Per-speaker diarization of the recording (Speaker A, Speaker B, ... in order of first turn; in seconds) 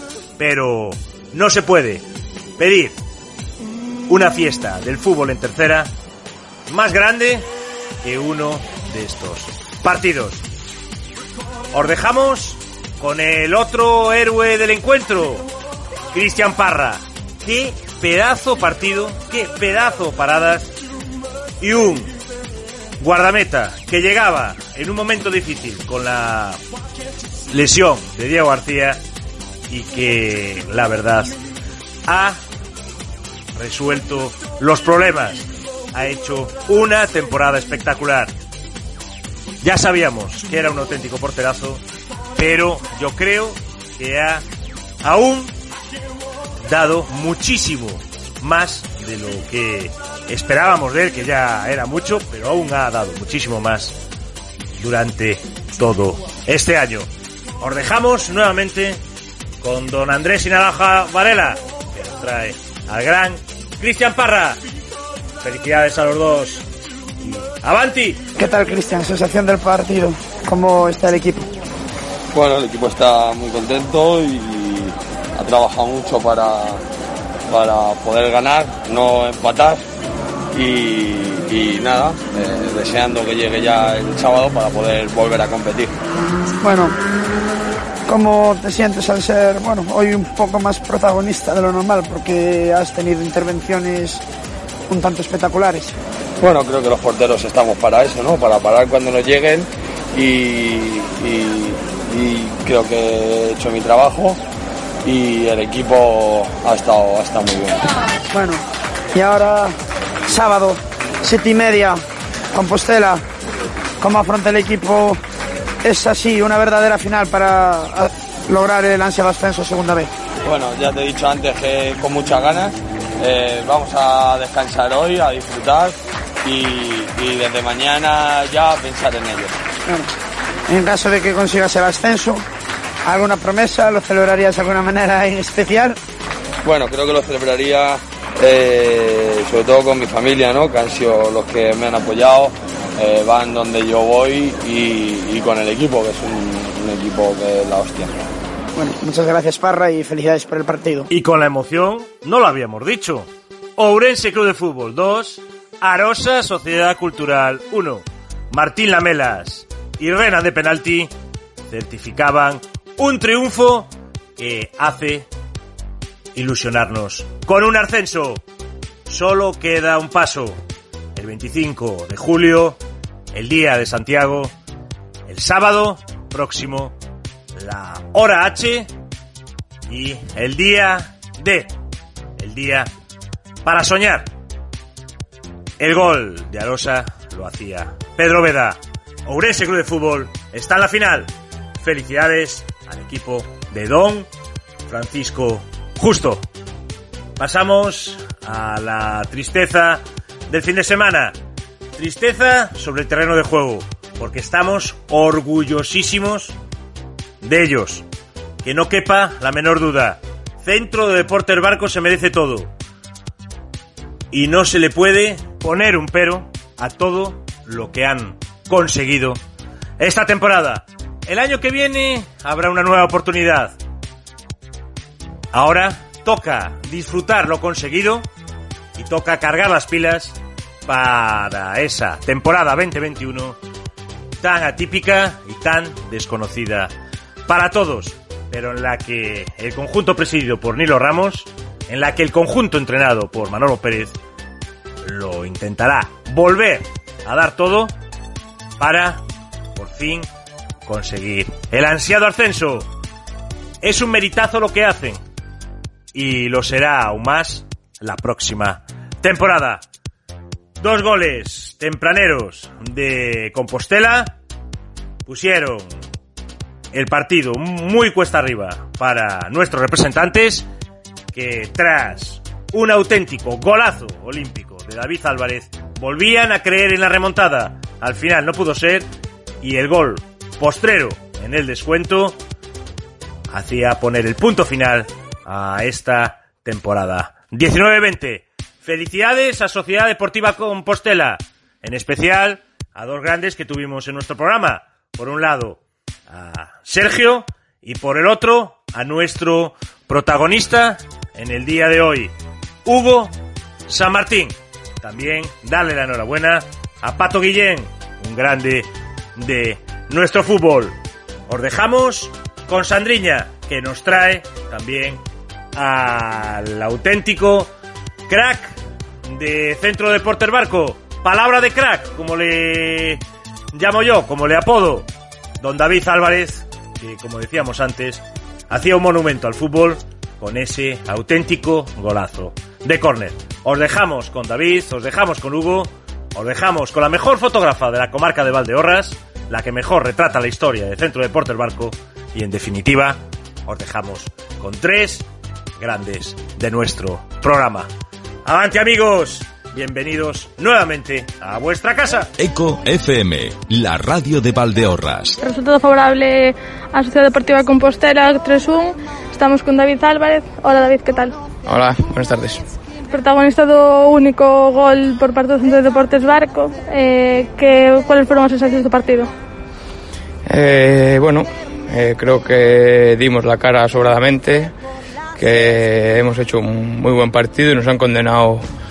Speaker A: 0.4-2.0, 2.6-3.0, 4.1-5.9, 6.7-7.5, 8.0-10.4, 11.7-15.5, 16.1-20.7, 21.6-22.1, 23.0-26.6, 27.5-29.0, 29.7-31.4, 32.1-32.4, 33.6-38.3, 39.6-41.8, 42.4-44.4, 45.0-45.5, 46.6-54.0, 54.8-57.1, 57.6-59.0, 59.6-64.6, 65.4-66.7, 67.2-68.2, 151.1-161.1, 161.7-165.3, 166.3-168.4, 169.1-170.6, 171.2-172.8, 173.3-174.5, 175.3-176.9, 177.6-178.9, 179.9-181.7, 182.4-182.9, 183.7-184.3, 185.8-191.3, 191.8-194.3, 194.9-196.4, 197.4-201.3, 201.9-206.6, 207.4-208.1, 208.6-212.7, 214.3-219.4, 220.0-223.8, 225.5-228.2, 229.0-233.6, 234.4-236.9, 237.5-244.2, 245.0-247.9, 248.8-249.2, 249.8-250.3, 250.9-252.9, 253.8-255.2, 256.1-259.8, 260.8-264.4, 265.3-265.9, 266.9-270.7, 271.3-279.1, 279.6-282.4, 283.5-302.3, 302.9-303.3, 303.9-311.0, 311.5-315.2, 315.8-317.7, 318.3-323.2, 323.7-325.1, 325.6-345.3, 345.8-347.9, 348.4-352.3
Speaker B: 68.4-71.5, 86.6-87.0, 88.1-94.2, 94.9-95.9, 108.3-109.8, 110.3-112.0, 112.5-113.2, 114.0-115.2, 115.8-120.1, 130.7-132.4, 133.1-136.0, 148.8-151.1
Speaker C: 72.3-76.8, 77.5-79.8, 80.5-86.0, 96.4-104.4, 105.0-107.9, 120.4-129.6, 136.6-148.2
Speaker D: 352.4-355.4
Speaker E: 355.4-361.4, 363.1-369.3
Speaker F: 361.7-362.6, 370.5-374.7, 375.4-378.6